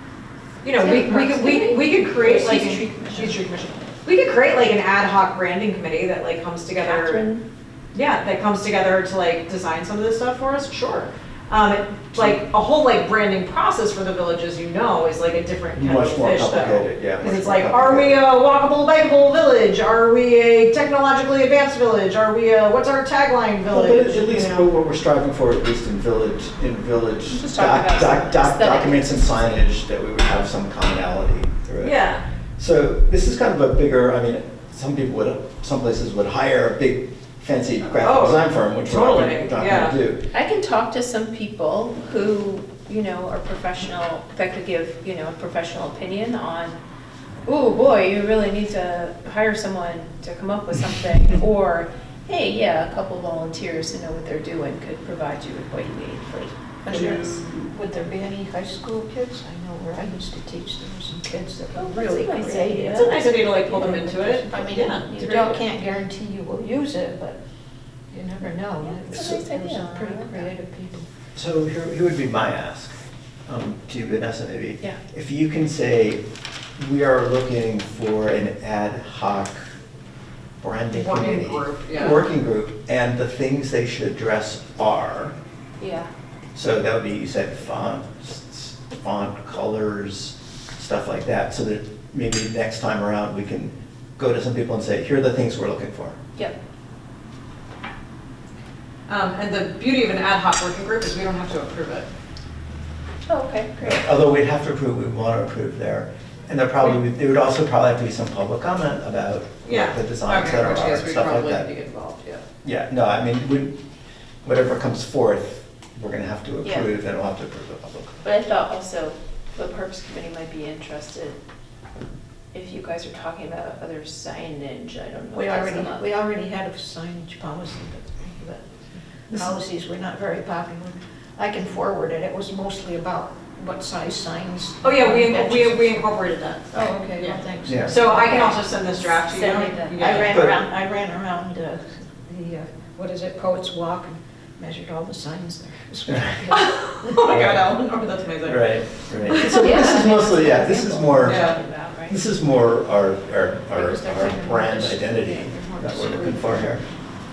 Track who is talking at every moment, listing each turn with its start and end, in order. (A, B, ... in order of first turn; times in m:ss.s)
0:00.6-0:07.2 A
0:00.7-0:03.4 B
0:06.8-0:07.4 B
0:07.9-0:24.7 A
0:12.1-0:12.4 C
0:15.7-0:18.2 C
0:23.7-0:32.0 C
0:27.3-0:29.6 B
0:31.8-0:32.2 A
0:32.6-0:40.2 C
0:38.0-0:40.0 A
0:40.3-0:46.8 B
0:47.4-0:57.4 B
0:56.8-1:07.4 D
1:01.7-1:03.4 B
1:02.8-1:05.6 A
1:04.8-1:05.4 B
1:08.1-1:11.1 D
1:08.8-1:10.5 B
1:11.3-1:12.9 C
1:13.5-1:16.2 C
1:16.8-1:19.6 C
1:20.6-1:25.3 C
1:20.9-1:22.2 A
1:25.8-1:26.1 B
1:26.5-1:36.2 C
1:39.1-1:42.1 A
1:43.3-1:44.1 B
1:43.8-1:51.7 C
1:49.6-1:52.4 A
1:52.6-1:53.8 C
1:54.4-1:58.2 C
1:56.6-1:56.9 B
1:58.2-2:01.4 B
2:02.5-2:06.1 B
2:05.3-2:08.6 D
2:09.3-2:16.0 D
2:14.8-2:20.5 A
2:16.7-2:18.6 D
2:17.6-2:17.9 C
2:18.1-2:18.6 B
2:19.2-2:20.2 B
2:19.8-2:27.8 D
2:20.3-2:20.6 C
2:26.1-2:26.4 C
2:26.5-2:29.8 A
2:27.2-2:27.8 C
2:28.4-2:36.8 C
2:29.5-2:32.2 B
2:31.2-2:31.6 A
2:33.7-2:36.6 D